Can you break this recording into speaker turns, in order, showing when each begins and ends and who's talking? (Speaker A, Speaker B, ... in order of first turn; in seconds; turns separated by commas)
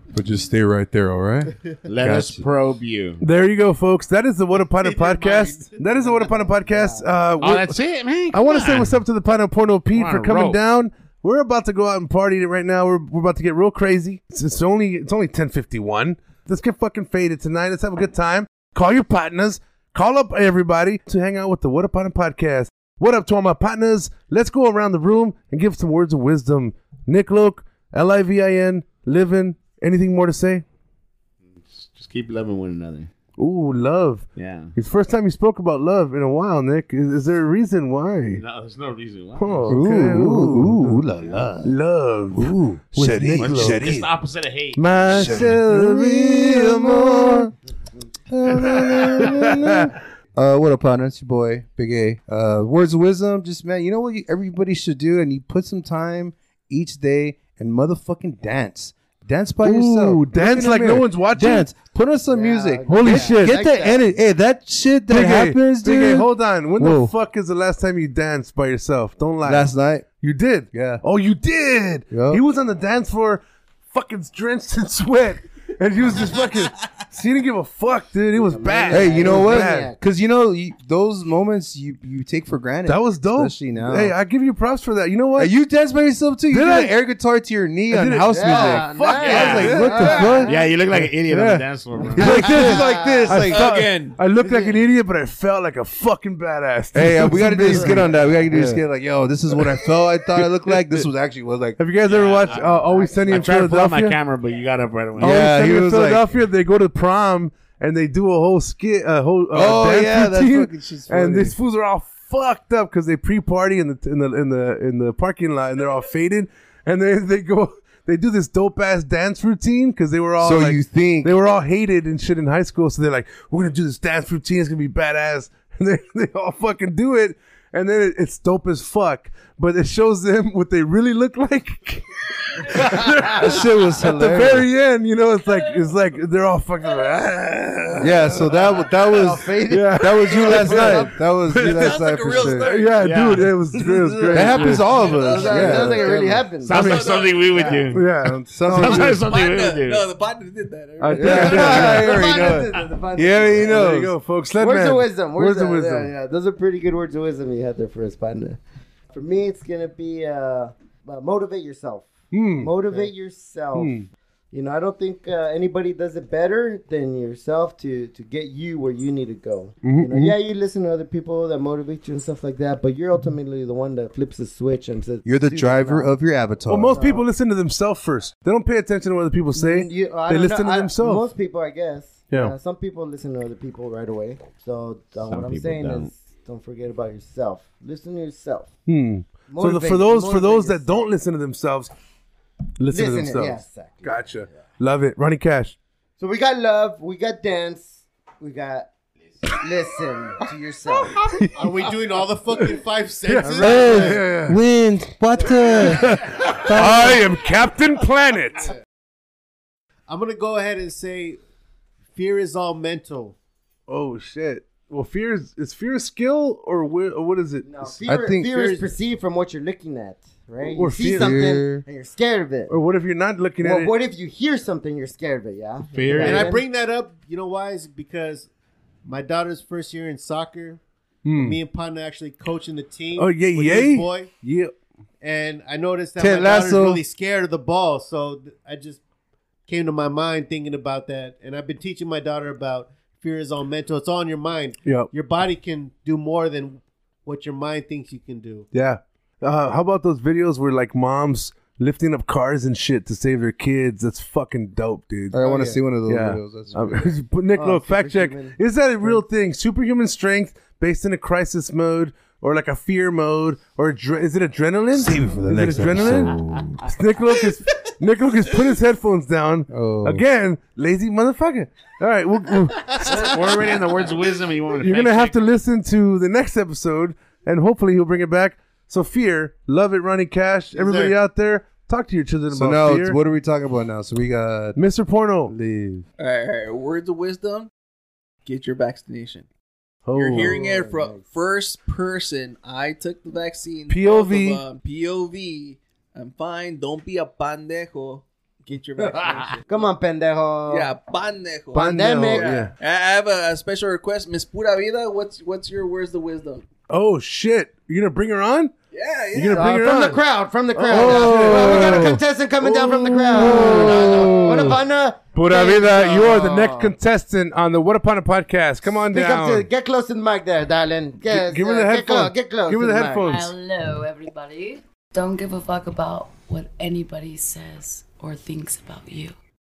Speaker A: 0.1-2.4, Speaker B: 1.8-3.2, Speaker C: 3.2-7.7, Speaker D: 4.7-5.8, Speaker E: 6.0-7.1, Speaker B: 7.4-9.0, Speaker C: 8.3-30.6, Speaker B: 9.9-10.6, Speaker B: 31.6-33.1, Speaker C: 33.4-38.4, Speaker B: 34.4-34.7, Speaker B: 38.3-39.9, Speaker C: 39.4-44.1, Speaker A: 39.7-41.8, Speaker A: 42.3-44.1, Speaker B: 43.4-45.5, Speaker C: 44.7-47.5, Speaker A: 45.1-47.5, Speaker A: 48.3-67.1, Speaker C: 48.6-49.9, Speaker C: 59.6-61.7, Speaker E: 62.3-64.0, Speaker C: 62.9-63.6, Speaker C: 65.1-79.9, Speaker A: 69.4-70.1, Speaker A: 70.7-71.0, Speaker A: 72.1-72.4, Speaker E: 78.5-80.0, Speaker A: 78.9-84.1, Speaker C: 82.9-85.5, Speaker A: 85.3-90.6, Speaker C: 86.5-86.9, Speaker C: 87.9-98.8, Speaker E: 88.3-90.6, Speaker B: 89.1-92.7, Speaker A: 91.3-91.6, Speaker A: 92.1-93.8, Speaker E: 92.2-93.5, Speaker F: 93.5-94.2, Speaker A: 96.9-101.8, Speaker C: 99.5-99.8, Speaker C: 100.3-101.0, Speaker C: 101.8-104.2, Speaker F: 102.1-102.5, Speaker B: 102.1-105.5, Speaker E: 102.9-103.3, Speaker C: 105.2-138.9, Speaker A: 105.2-106.3, Speaker A: 109.5-111.5, Speaker A: 120.4-121.3, Speaker A: 132.7-134.7, Speaker A: 138.0-142.7, Speaker E: 138.6-141.1, Speaker C: 139.7-145.7, Speaker F: 141.5-143.2, Speaker B: 143.0-143.5, Speaker E: 143.9-147.8, Speaker A: 144.3-146.5, Speaker B: 146.6-150.1, Speaker C: 146.7-147.3, Speaker F: 146.7-147.8, Speaker C: 147.9-149.1, Speaker A: 148.2-149.2, Speaker F: 148.9-152.1, Speaker C: 151.0-152.3, Speaker A: 151.1-154.1, Speaker E: 151.2-153.9, Speaker C: 153.6-156.1, Speaker E: 154.6-158.6, Speaker E: 159.1-163.9, Speaker C: 162.3-163.1, Speaker C: 163.7-164.1, Speaker E: 164.5-176.2, Speaker C: 169.8-170.3, Speaker A: 175.2-177.0, Speaker C: 176.7-181.3, Speaker E: 176.9-177.2, Speaker E: 179.5-188.7, Speaker B: 185.3-186.1, Speaker C: 188.9-191.9, Speaker E: 189.5-191.1, Speaker C: 192.8-195.8, Speaker E: 192.9-194.2, Speaker E: 196.2-198.9, Speaker E: 199.4-201.2, Speaker C: 201.1-201.8, Speaker D: 201.6-204.2, Speaker C: 203.2-204.6, Speaker A: 203.5-207.2, Speaker C: 205.8-208.7, Speaker D: 210.1-211.4, Speaker D: 212.1-213.3, Speaker C: 213.9-217.8, Speaker E: 217.6-222.7, Speaker A: 218.0-218.8, Speaker C: 220.7-221.6, Speaker A: 221.0-221.8, Speaker C: 222.7-223.9, Speaker E: 223.6-226.6, Speaker B: 225.9-226.5, Speaker D: 226.2-228.5, Speaker D: 229.0-230.8, Speaker C: 231.2-231.6, Speaker D: 231.4-234.3, Speaker C: 233.2-234.7, Speaker D: 235.2-239.0, Speaker A: 236.2-237.0, Speaker D: 239.7-248.7, Speaker C: 244.8-245.1, Speaker C: 248.7-273.4, Speaker A: 255.3-257.1, Speaker E: 255.4-255.8, Speaker E: 257.5-259.2, Speaker A: 264.9-266.9, Speaker A: 269.7-270.2, Speaker B: 273.0-275.6, Speaker C: 274.8-283.2, Speaker D: 280.7-281.1, Speaker A: 282.5-284.8, Speaker C: 284.8-285.5, Speaker A: 285.5-286.1, Speaker F: 286.2-287.7, Speaker F: 288.4-289.5, Speaker C: 290.1-290.6, Speaker F: 290.1-299.6, Speaker E: 290.3-291.2, Speaker C: 293.9-294.6, Speaker E: 299.7-300.9, Speaker F: 300.7-306.6, Speaker E: 301.7-302.6, Speaker C: 301.7-302.7, Speaker C: 306.9-308.7, Speaker F: 308.9-309.7, Speaker C: 309.3-310.2, Speaker E: 309.3-316.9, Speaker C: 310.7-314.7, Speaker A: 310.9-312.2, Speaker A: 313.3-314.5, Speaker F: 313.7-314.4, Speaker C: 315.3-319.7, Speaker E: 318.9-323.3, Speaker C: 321.2-323.5, Speaker G: 323.2-329.4